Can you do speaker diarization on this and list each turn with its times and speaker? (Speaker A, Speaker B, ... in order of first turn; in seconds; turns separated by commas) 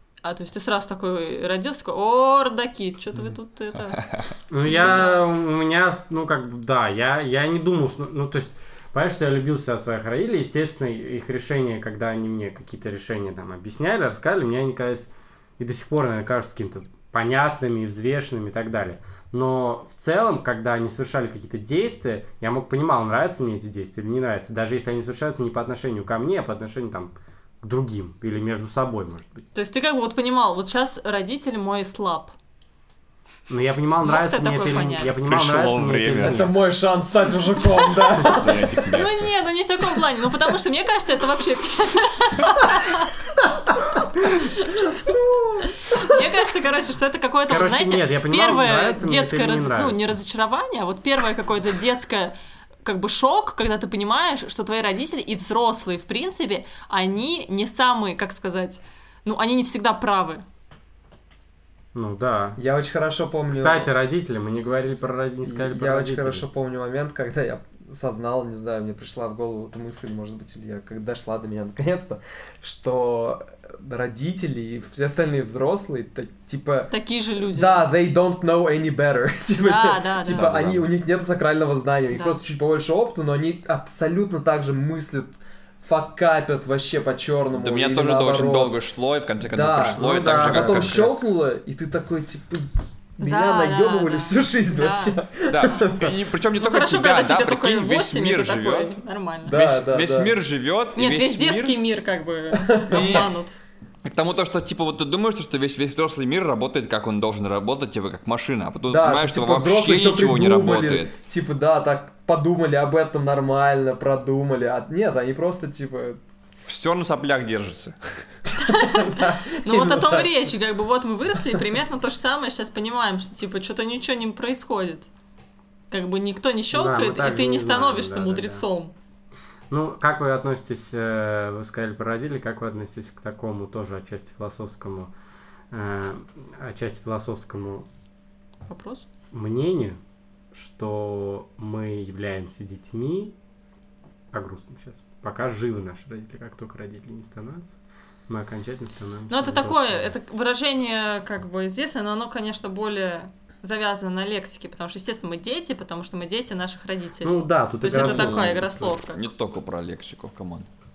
Speaker A: 0.2-4.0, Speaker B: 3.8-5.1, Speaker C: 4.5-29.4, Speaker A: 4.6-5.1, Speaker A: 29.5-32.3, Speaker C: 33.5-36.6, Speaker A: 34.0-35.2, Speaker B: 35.1-36.5, Speaker D: 36.2-39.0, Speaker B: 38.2-39.3, Speaker A: 38.9-43.2, Speaker D: 43.4-44.0, Speaker A: 44.3-52.3, Speaker D: 44.9-46.2, Speaker C: 47.5-50.2, Speaker A: 52.9-60.4, Speaker C: 61.9-62.6, Speaker D: 62.6-63.9, Speaker C: 63.5-66.5, Speaker D: 65.4-76.9, Speaker A: 76.9-77.9, Speaker D: 77.5-88.7, Speaker A: 79.6-80.6, Speaker B: 80.3-80.9, Speaker A: 82.1-82.4, Speaker B: 87.6-91.1, Speaker D: 89.5-96.2, Speaker C: 90.0-91.1, Speaker A: 93.2-95.2, Speaker B: 95.5-99.0, Speaker A: 96.6-99.6, Speaker D: 99.5-100.3, Speaker B: 99.5-101.8, Speaker A: 101.0-103.6, Speaker D: 102.6-103.3, Speaker B: 102.9-103.3, Speaker B: 104.0-111.1, Speaker D: 108.9-116.2, Speaker B: 116.6-118.3, Speaker A: 118.6-125.1, Speaker D: 118.7-120.3, Speaker A: 125.9-128.9, Speaker C: 126.7-128.6, Speaker C: 129.7-135.1, Speaker C: 135.7-137.9, Speaker A: 138.7-139.1, Speaker C: 139.3-140.0, Speaker C: 140.5-143.3, Speaker C: 144.3-147.8, Speaker C: 148.3-150.1, Speaker A: 149.3-159.3, Speaker C: 157.2-159.0, Speaker B: 157.9-160.7